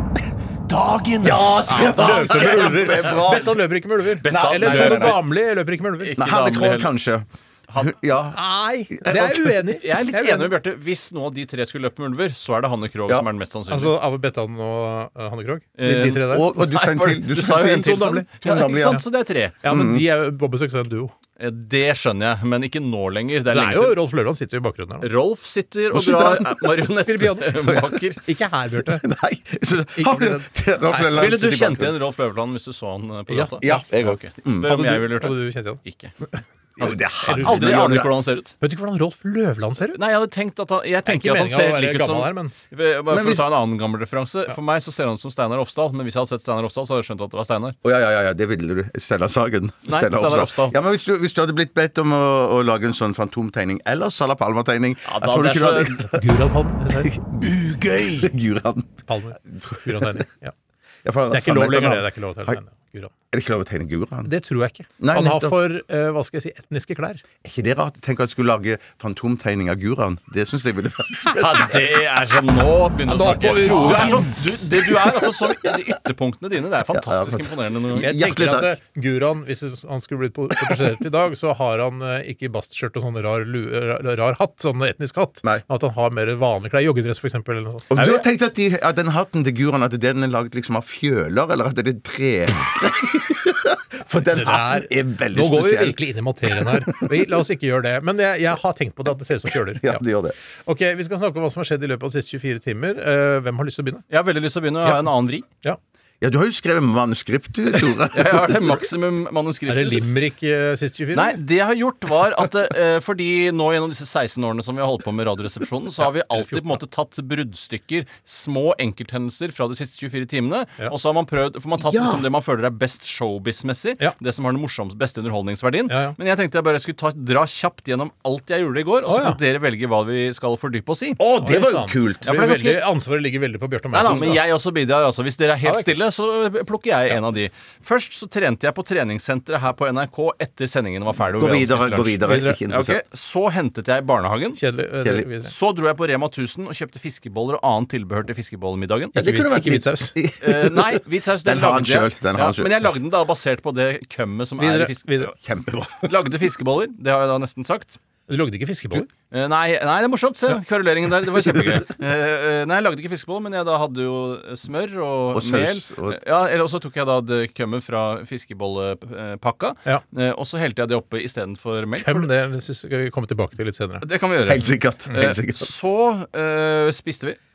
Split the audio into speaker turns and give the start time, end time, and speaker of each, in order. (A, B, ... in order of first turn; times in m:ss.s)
0:00.7-0:02.7 A
0:01.2-0:03.5 B
0:01.7-0:06.1 C
0:04.2-0:05.2 A
0:04.2-0:05.2 B
0:06.0-0:06.9 A
0:06.2-0:08.4 B
0:08.3-0:10.5 C
0:08.9-0:09.5 B
0:09.8-0:14.0 A
0:13.7-0:16.5 C
0:15.8-0:19.6 A
0:15.9-0:19.0 B
0:17.8-0:18.3 C
0:19.6-0:21.1 C
0:19.6-0:20.0 B
0:21.4-0:24.0 A
0:23.5-0:25.1 C
0:25.0-0:28.2 A
0:25.9-0:26.8 B
0:27.0-0:29.0 C
0:28.9-0:31.9 B
0:30.0-0:31.1 C
0:31.0-0:36.1 A
0:33.3-0:33.9 C
0:33.6-0:34.9 B
0:34.5-0:35.8 C
0:36.8-0:38.5 A
0:36.8-0:38.1 B
0:37.2-0:37.9 C
0:38.6-0:40.0 C
0:39.9-0:47.8 A
0:41.0-0:42.5 C
0:43.1-0:43.5 B
0:47.8-0:56.2 B
0:49.8-0:50.8 A
0:55.0-0:56.0 A
0:56.1-0:57.1 C
0:57.0-1:00.2 B
0:59.1-1:00.5 C
1:01.0-1:02.6 B
1:01.3-1:03.1 C
1:03.3-1:04.3 B
1:04.2-1:07.2 C
1:05.0-1:05.6 B
1:07.4-1:11.9 B
1:11.4-1:18.1 A
1:13.1-1:14.5 C
1:13.7-1:15.8 B
1:16.9-1:18.8 B
1:17.9-1:27.9 C
1:20.6-1:20.9 B
1:27.9-1:37.2 B
1:34.3-1:40.0 C
1:39.6-1:40.4 B
1:40.6-1:44.0 C
1:44.1-1:45.4 A
1:46.2-1:48.8 B
1:48.1-1:50.1 A
1:49.7-1:51.4 C
1:51.1-2:11.2 A
1:56.3-1:56.7 C
2:01.8-2:02.3 B
2:05.9-2:06.2 C
2:09.0-2:09.4 C
2:11.2-2:12.3 B
2:11.4-2:14.4 C
2:12.2-2:12.8 A
2:13.9-2:24.6 A
2:15.6-2:15.9 C
2:21.3-2:23.0 B
2:22.2-2:22.6 C
2:24.6-2:25.5 C
2:25.4-2:29.2 A
2:29.1-2:32.9 B
2:29.2-2:30.1 C
2:30.4-2:35.3 A
2:34.6-2:35.3 C
2:35.4-2:36.3 B
2:36.0-2:38.0 A
2:38.3-2:39.1 C
2:39.3-2:52.3 A
2:45.3-2:46.2 B
2:52.0-2:54.0 C
2:54.0-2:57.4 A
2:54.5-2:55.7 B